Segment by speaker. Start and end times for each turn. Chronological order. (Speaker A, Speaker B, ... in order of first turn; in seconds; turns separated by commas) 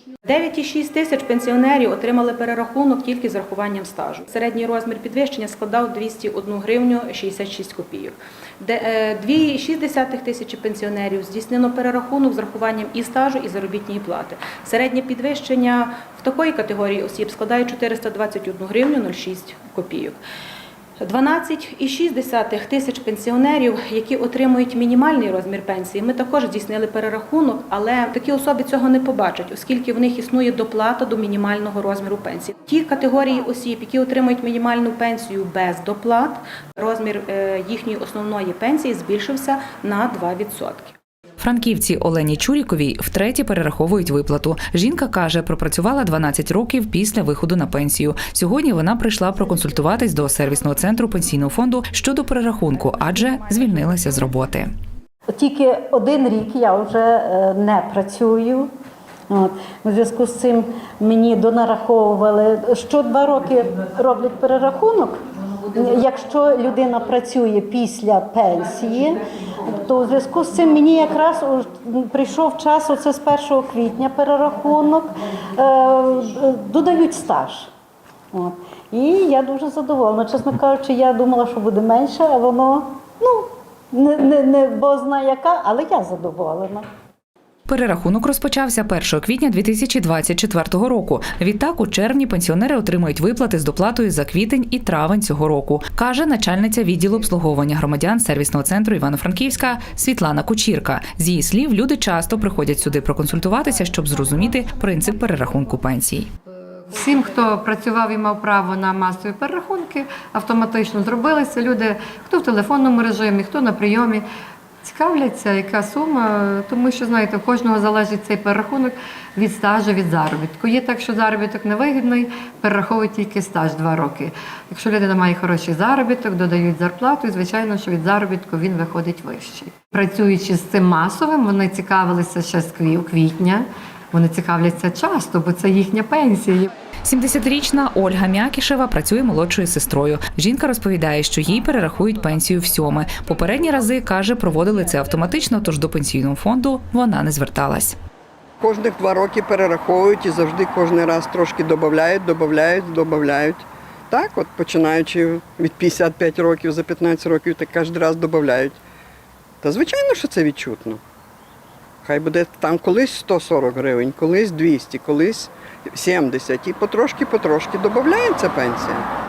Speaker A: 0.2-20.2, Speaker A: 21.0-41.0, Speaker B: 41.4-54.7, Speaker A: 52.9-54.5, Speaker C: 55.3-58.7, Speaker C: 59.3-77.7, Speaker C: 78.3-86.8, Speaker B: 87.7-106.3, Speaker D: 106.9-114.2, Speaker D: 114.8-136.7, Speaker B: 137.0-147.9, Speaker E: 148.6-158.8, Speaker E: 159.6-161.0, Speaker E: 162.0-169.1